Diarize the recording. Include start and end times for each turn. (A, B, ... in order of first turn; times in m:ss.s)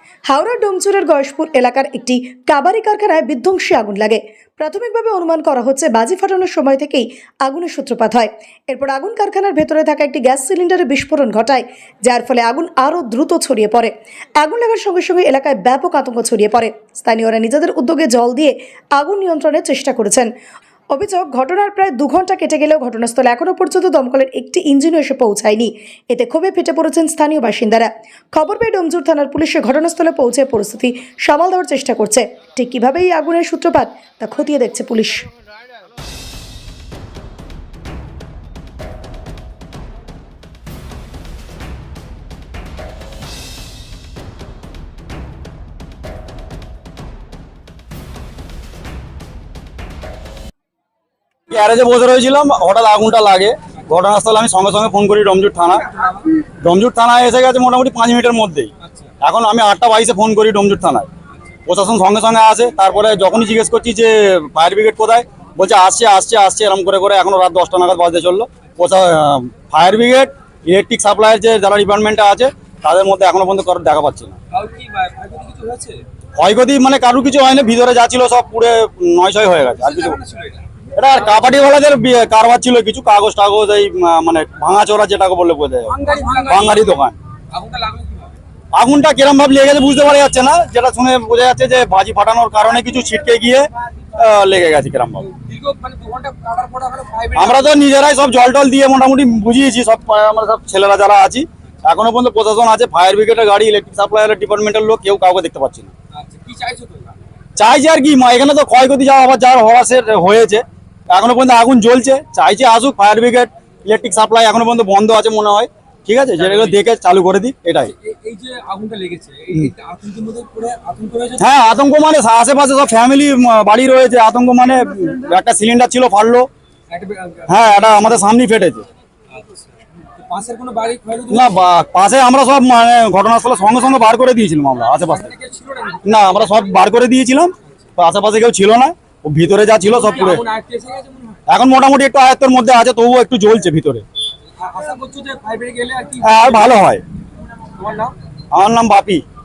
0:00.3-0:20.3 A
0:20.9-0:35.3 A
0:51.5-0:55.9 B
0:55.9-0:56.2 C
0:56.6-0:58.7 B
0:58.8-0:59.1 C
0:59.2-1:01.1 B
1:01.7-1:14.4 B
1:14.5-1:16.0 C
1:16.4-1:20.2 B
1:19.7-1:20.6 C
1:21.0-1:27.2 B
1:25.9-1:27.0 C
1:27.5-1:28.4 C
1:28.7-1:35.3 B
1:35.3-1:37.8 C
1:37.3-1:45.9 B
1:46.1-1:47.2 C
1:47.6-1:57.9 B
1:56.4-1:56.8 C
1:57.8-2:01.5 C
2:01.4-2:06.5 B
2:06.9-2:08.0 C
2:07.5-2:08.9 B
2:09.3-2:11.6 C
2:11.3-2:15.3 B
2:15.0-2:16.5 C
2:16.0-2:20.4 B
2:19.8-2:21.4 C
2:21.5-2:24.0 B
2:24.6-2:26.8 C
2:26.2-2:27.0 B
2:27.8-2:28.1 C
2:28.5-2:29.2 B